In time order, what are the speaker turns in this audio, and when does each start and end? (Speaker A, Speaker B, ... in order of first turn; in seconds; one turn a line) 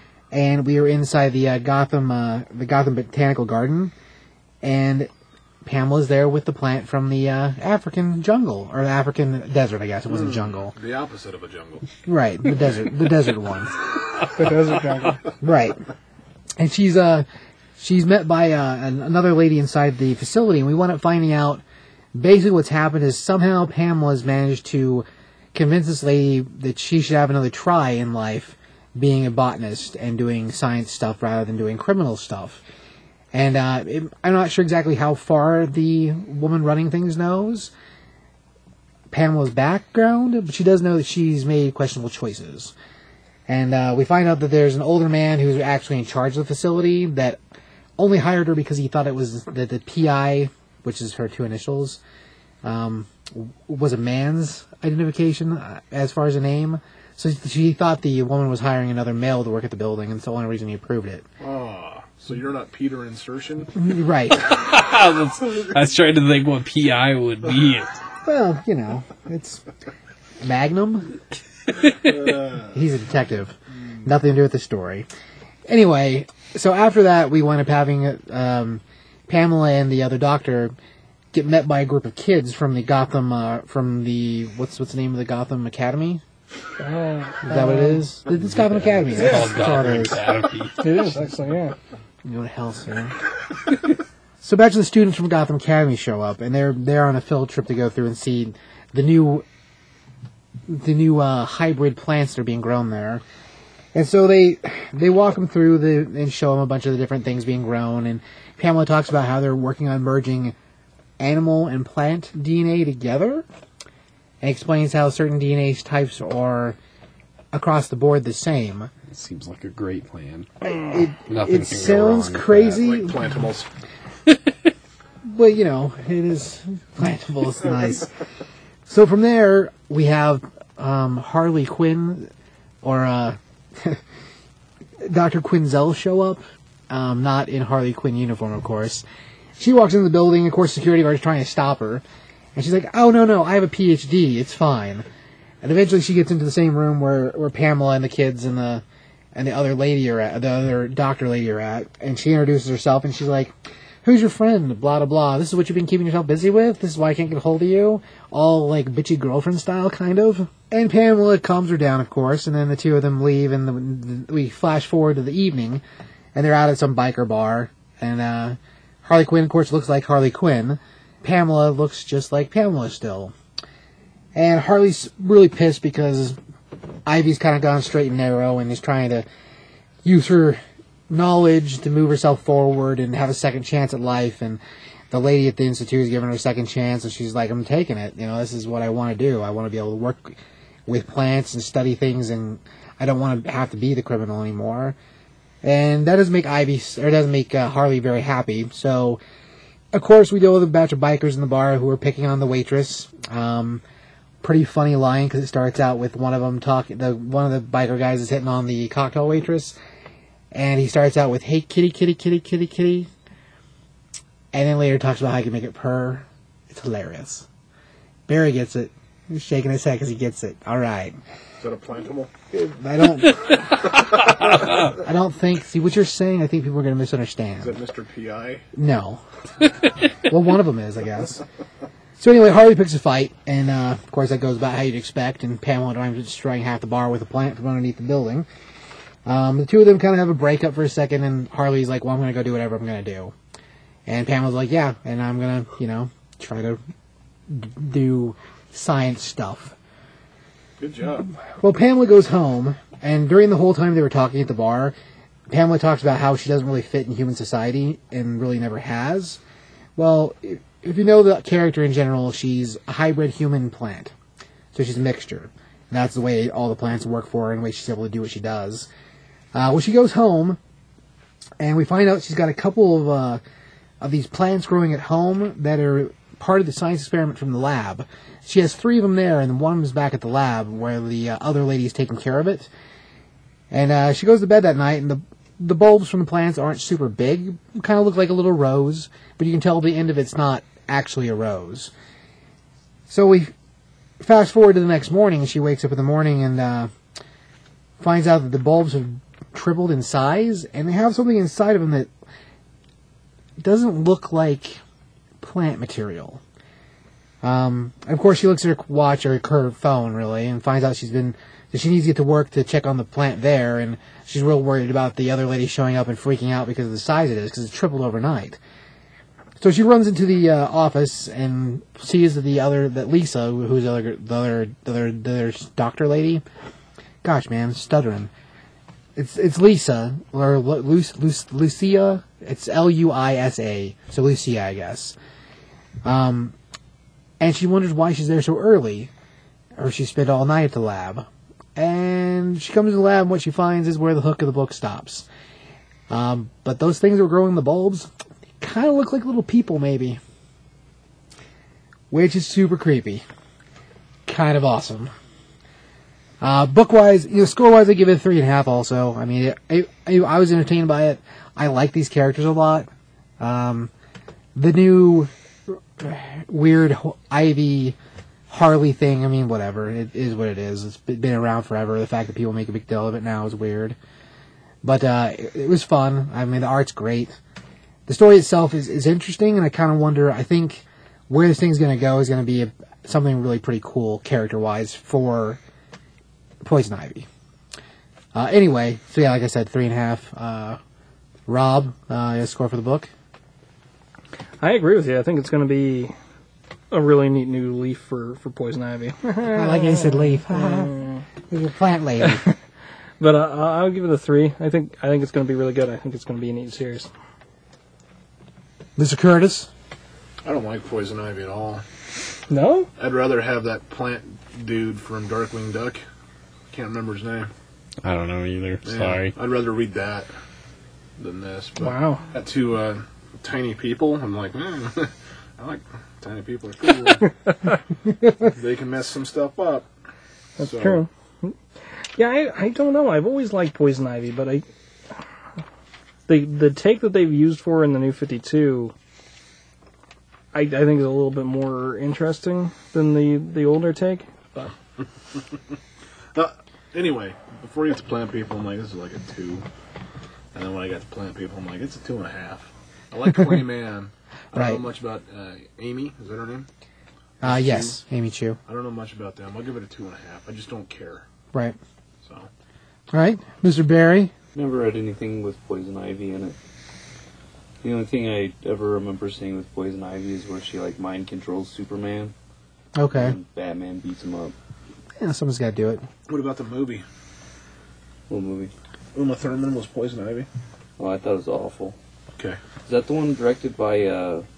Speaker A: 0.3-3.9
Speaker A: 4.6-5.1
Speaker A: 5.6-10.7
Speaker B: 10.1-11.9
Speaker A: 12.1-13.8
Speaker B: 12.6-12.8
Speaker C: 14.3-15.2
Speaker A: 15.4-15.8
Speaker A: 16.6-17.2
Speaker A: 17.8-21.6
Speaker A: 22.1-32.6
Speaker A: 33.3-37.7
Speaker A: 39.1-42.7
Speaker A: 43.5-47.4
Speaker A: 48.0-52.0
Speaker A: 52.6-61.2
Speaker B: 61.4-63.7
Speaker A: 63.7-64.6
Speaker D: 64.5-68.0
Speaker A: 68.2-69.6
Speaker A: 70.4-71.1
Speaker B: 71.9-72.8
Speaker A: 72.7-75.1
Speaker A: 75.7-80.7
Speaker A: 81.3-86.2
Speaker C: 86.8-88.0
Speaker A: 87.4-90.2
Speaker D: 88.4-90.8
Speaker C: 90.8-91.8
Speaker A: 92.2-93.1
Speaker A: 94.4-99.4
Speaker A: 100.7-103.2
Speaker A: 103.9-110.5
Speaker A: 111.2-113.5
Speaker A: 114.4-116.8
Speaker A: 117.5-118.9
Speaker D: 119.1-120.7
Speaker A: 120.7-123.2
Speaker D: 121.2-122.7
Speaker B: 122.7-123.7
Speaker A: 125.2-128.1
Speaker A: 128.9-132.3
Speaker A: 132.8-134.0
Speaker A: 135.0-139.0
Speaker A: 139.6-142.0
Speaker A: 142.5-145.1
Speaker A: 145.6-153.5
Speaker A: 154.0-165.8
Speaker A: 166.3-173.3
Speaker A: 174.3-176.4
Speaker A: 177.1-179.2
Speaker A: 180.0-194.9
Speaker A: 195.6-199.2
Speaker A: 199.9-203.8
Speaker A: 204.4-209.8
Speaker A: 210.5-213.1
Speaker A: 214.5-217.5
Speaker A: 218.3-221.2
Speaker B: 221.6-222.3
Speaker A: 222.5-227.8
Speaker B: 227.6-228.6
Speaker A: 228.7-229.2
Speaker A: 230.2-231.4
Speaker A: 232.2-238.5
Speaker A: 239.2-243.3
Speaker A: 244.1-246.8
Speaker A: 247.5-249.7
Speaker B: 250.8-251.3
Speaker A: 251.5-254.9
Speaker A: 255.5-259.4
Speaker A: 259.9-264.1
Speaker A: 264.7-268.9
Speaker A: 269.5-270.6
Speaker A: 271.6-273.4
Speaker A: 274.0-282.7
Speaker A: 283.7-291.9
Speaker A: 293.1-293.5
Speaker A: 294.2-296.9
Speaker A: 298.0-302.1
Speaker A: 303.6-304.8
Speaker A: 305.4-306.4
Speaker A: 307.4-318.6
Speaker A: 319.6-326.4
Speaker A: 327.2-328.3
Speaker A: 329.1-335.1
Speaker A: 336.0-336.5
Speaker A: 337.4-339.1
Speaker A: 339.8-345.3
Speaker A: 346.1-348.1
Speaker A: 348.6-350.2
Speaker A: 352.1-353.2
Speaker A: 354.2-355.1
Speaker A: 356.4-362.9
Speaker A: 363.4-363.9
Speaker A: 364.5-368.0
Speaker A: 368.5-374.0
Speaker A: 374.8-377.4
Speaker A: 378.1-385.6
Speaker A: 386.6-387.3
Speaker A: 388.3-390.8
Speaker A: 391.5-393.1
Speaker C: 394.6-396.1
Speaker C: 396.9-401.2
Speaker A: 399.5-400.9
Speaker A: 401.5-402.4
Speaker C: 402.2-402.5
Speaker C: 403.2-407.1
Speaker A: 409.0-409.7
Speaker B: 410.4-411.8
Speaker C: 412.5-412.9
Speaker B: 413.0-416.0
Speaker B: 416.7-417.5
Speaker D: 418.0-419.4
Speaker B: 418.8-420.3
Speaker B: 421.2-427.3
Speaker C: 421.8-422.3
Speaker B: 428.4-429.9
Speaker B: 430.6-431.0
Speaker C: 430.6-431.5
Speaker C: 432.1-434.6
Speaker C: 436.3-438.9
Speaker C: 440.5-444.7
Speaker B: 446.3-449.6
Speaker B: 450.5-456.7
Speaker A: 454.5-454.8
Speaker A: 457.4-458.6
Speaker B: 457.4-458.0
Speaker B: 458.7-461.2
Speaker A: 461.5-461.8
Speaker B: 462.2-462.5
Speaker A: 463.1-464.3
Speaker E: 464.5-466.6
Speaker E: 467.8-472.3
Speaker A: 472.9-473.4
Speaker E: 473.1-474.5
Speaker A: 475.2-476.0
Speaker B: 476.3-477.0
Speaker E: 478.3-478.7
Speaker B: 479.1-480.5
Speaker E: 481.0-481.9
Speaker E: 482.9-484.4